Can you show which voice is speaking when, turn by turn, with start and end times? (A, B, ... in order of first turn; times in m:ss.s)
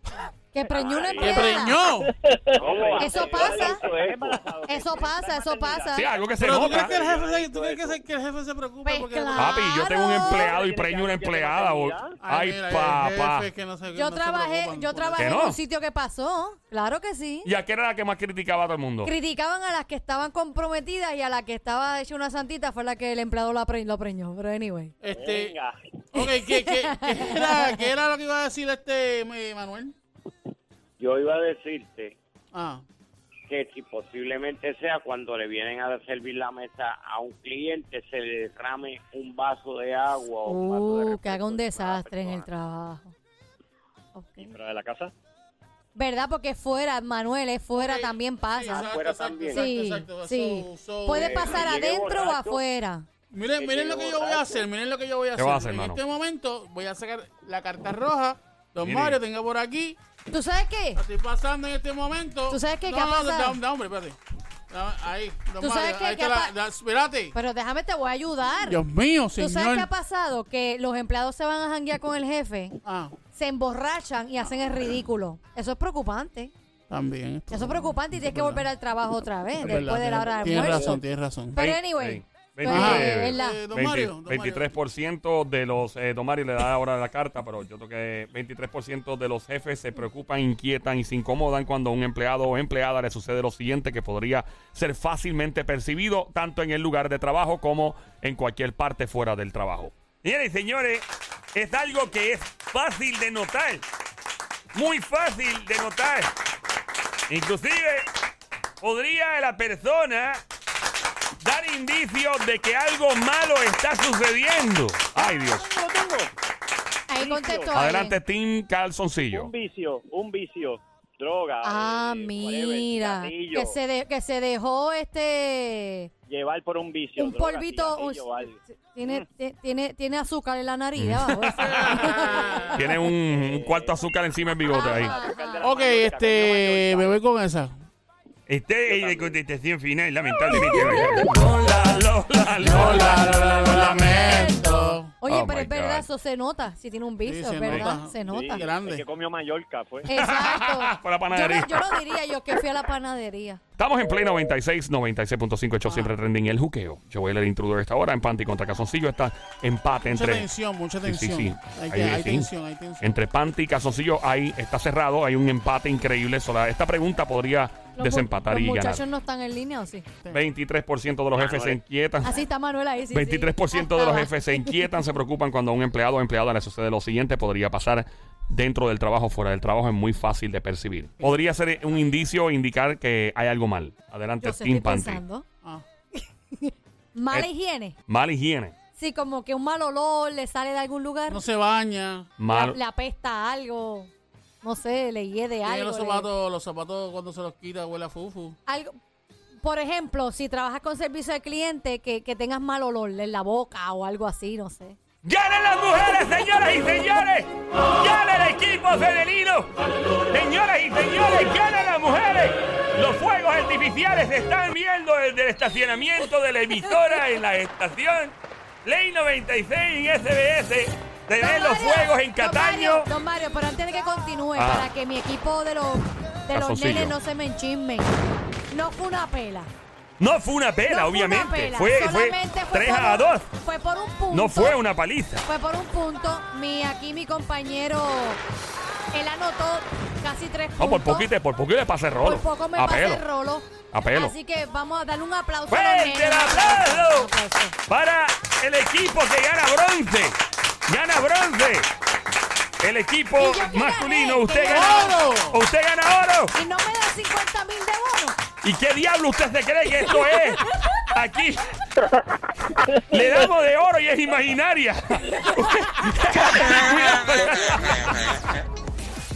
0:00.5-0:01.8 A
0:00.7-0:01.6 B
0:00.9-0:01.4 C
0:01.2-0:02.1 D
0:02.4-0:06.6 B
0:02.5-0:04.4 C
0:03.0-0:03.8 A
0:04.7-0:06.1 A
0:05.9-0:07.0 E
0:06.4-0:09.6 D
0:06.5-0:08.0 C
0:08.8-0:10.5 A
0:09.4-0:13.5 E
0:10.2-0:12.2 B
0:12.2-0:15.4 D
0:13.9-0:17.5 A
0:15.2-0:15.6 E
0:17.4-0:19.1 E
0:19.0-0:25.0 A
0:25.0-0:25.6 D
0:25.1-0:25.8 B
0:26.1-0:30.0 D
0:26.1-0:27.8 A
0:31.0-0:32.2 C
0:32.5-0:32.8 D
0:33.5-0:42.5 C
0:40.4-0:43.2 A
0:44.2-0:44.5 A
0:44.4-0:45.1 B
0:46.0-0:48.9 A
0:47.7-0:51.8 D
0:48.7-0:49.7 C
0:49.5-0:53.1 A
0:51.1-0:52.6 C
0:53.3-1:00.0 D
0:53.5-0:54.7 C
0:55.4-0:56.0 E
0:58.8-0:59.2 E
1:00.3-1:01.0 A
1:01.0-1:04.2 D
1:02.5-1:03.6 A
1:04.7-1:07.4 D
1:05.6-1:06.6 A
1:07.3-1:08.8 A
1:08.7-1:09.9 D
1:09.4-1:12.8 A
1:12.8-1:13.2 D
1:13.3-1:16.5 A
1:16.9-1:18.7 D
1:17.5-1:23.6 A
1:19.6-1:21.6 D
1:21.6-1:43.9 E
1:22.7-1:24.7 D
1:44.7-1:46.3 E
1:47.3-1:48.1 E
1:48.8-1:50.4 E
1:51.4-1:55.7 E
1:55.2-1:56.3 B
1:57.1-1:58.2 A
1:57.2-1:57.8 B
1:57.7-1:59.5 E
1:59.3-2:03.8 B
2:01.6-2:06.1 A
2:06.3-2:09.3 B
2:07.2-2:12.7 A
2:11.0-2:12.1 E
2:11.8-2:12.7 D
2:12.1-2:14.0 B
2:12.7-2:15.1 E
2:14.6-2:17.2 B
2:14.7-2:15.7 A
2:15.6-2:17.8 D
2:18.5-2:26.1 E
2:18.9-2:19.4 B
2:22.6-2:25.1 D
2:23.7-2:28.7 A
2:27.2-2:29.0 D
2:28.3-2:30.1 B
2:30.0-2:33.6 A
2:30.2-2:31.9 E
2:33.8-2:40.5 E
2:35.9-2:36.1 D
2:40.1-2:43.1 D
2:41.0-2:49.0 E
2:48.0-2:50.1 A
2:50.3-2:52.4 E
2:51.3-2:51.8 C
2:52.2-2:54.9 A
2:53.1-3:05.2 E
3:04.4-3:05.4 A
3:06.2-3:08.0 A
3:08.1-3:08.8 E
3:09.0-3:11.4 A
3:11.3-3:12.3 D
3:12.4-3:12.8 E
3:12.5-3:14.1 A
3:14.6-3:16.3 A
3:15.6-3:18.6 D
3:18.7-3:19.0 A
3:19.6-3:25.0 A
3:25.2-3:29.7 E
3:30.3-3:43.1 E
3:41.4-3:49.7 A
3:44.6-3:44.9 E
3:46.5-3:47.2 E
3:50.2-3:53.5 E
3:50.9-3:54.8 A
3:54.3-3:55.4 E
3:55.4-3:58.4 A
3:59.1-4:01.3 A
4:00.8-4:03.2 E
4:02.2-4:07.8 A
4:03.9-4:04.4 E
4:05.7-4:07.3 E
4:07.9-4:11.9 E
4:12.8-4:16.6 E
4:13.4-4:15.5 A
4:14.7-4:15.6 D
4:16.5-4:18.4 A
4:18.6-4:22.0 E
4:22.8-4:28.6 E